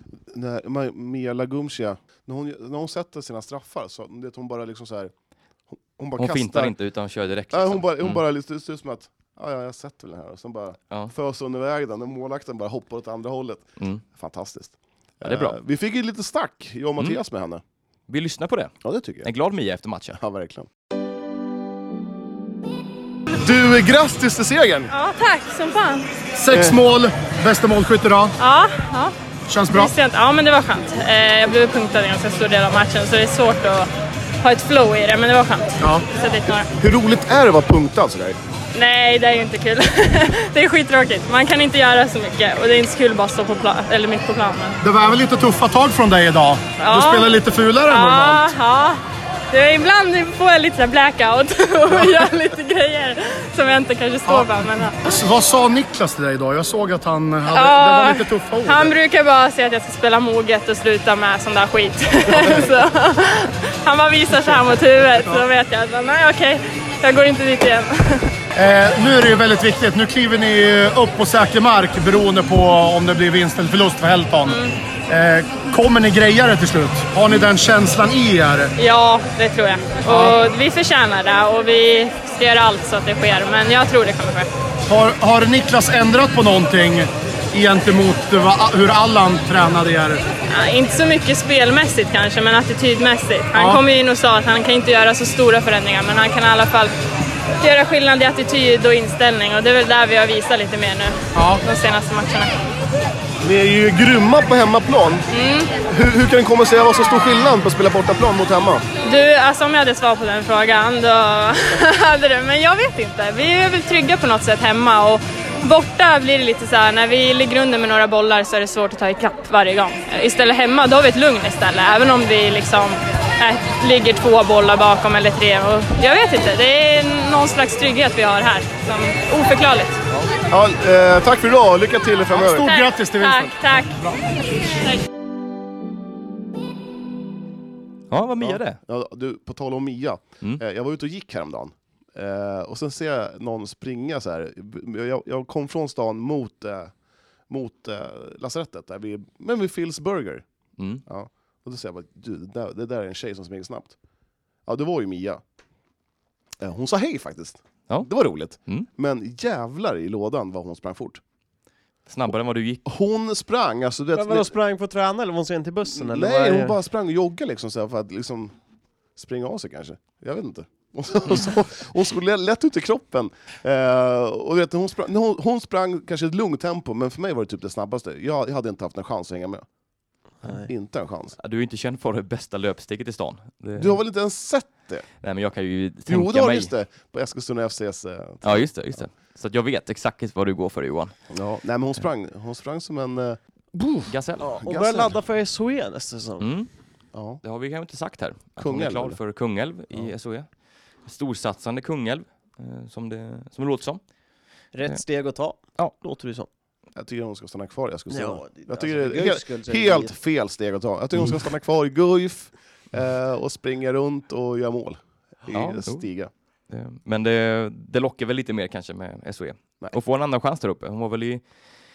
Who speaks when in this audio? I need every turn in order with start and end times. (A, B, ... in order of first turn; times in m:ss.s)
0:00.3-0:05.1 A
0:05.7-0:06.7 A
0:06.2-0:08.2 B
0:07.5-0:17.6 A
0:13.8-0:14.0 B
0:15.2-0:15.6 B
0:18.1-0:20.2 B
0:18.8-0:19.3 A
0:20.1-0:20.7 A
0:23.3-0:24.9 A
0:24.9-0:26.1 C
0:26.3-0:28.4 D
0:26.5-0:26.8 A
0:28.4-0:29.1 C
0:29.5-0:29.9 D
0:29.7-0:33.9 C
0:34.4-0:36.7 C
0:35.8-0:36.0 D
0:36.8-0:38.4 A
0:38.7-0:44.8 C
0:44.8-0:48.5 D
0:46.8-0:55.0 C
0:55.0-0:58.9 D
0:57.5-1:08.3 C
1:08.5-1:18.7 D
1:14.4-1:14.7 C
1:18.8-1:24.5 C
1:20.0-1:20.4 D
1:24.9-1:30.2 D
1:30.5-1:36.9 C
1:33.6-1:33.8 D
1:37.6-1:42.5 C
1:41.3-1:41.6 D
1:43.4-1:45.2 A
1:45.3-1:45.8 C
1:45.9-1:48.8 A
1:49.0-2:10.0 C
2:10.5-2:12.7 A
2:12.4-2:14.1 D
2:12.6-2:14.0 C
2:18.1-2:18.8 B
2:18.4-2:26.9 A
2:27.5-2:30.4 A
2:30.8-2:31.0 B
2:31.1-2:33.9 A
2:34.6-2:35.4 A
2:36.6-2:41.2 A
2:42.1-2:42.8 B
2:42.8-2:44.5 A
2:44.1-2:46.8 E
2:45.8-2:48.6 A
2:49.2-2:59.6 A
3:00.4-3:00.7 E
3:00.6-3:01.4 A
3:01.4-3:04.0 B
3:03.8-3:05.1 A
3:05.2-3:06.7 B
3:06.1-3:08.7 A
3:08.4-3:11.1 B
3:11.3-3:13.9 A
3:14.1-3:14.6 B
3:14.4-3:16.5 E
3:14.6-3:15.1 A
3:16.4-3:16.7 B
3:17.1-3:17.4 A
3:17.4-3:20.5 B
3:18.6-3:19.2 A
3:21.0-3:24.0 B
3:24.7-3:26.5 E
3:27.0-3:36.3 A
3:28.1-3:30.2 E
3:35.5-3:36.0 B
3:36.7-3:41.4 B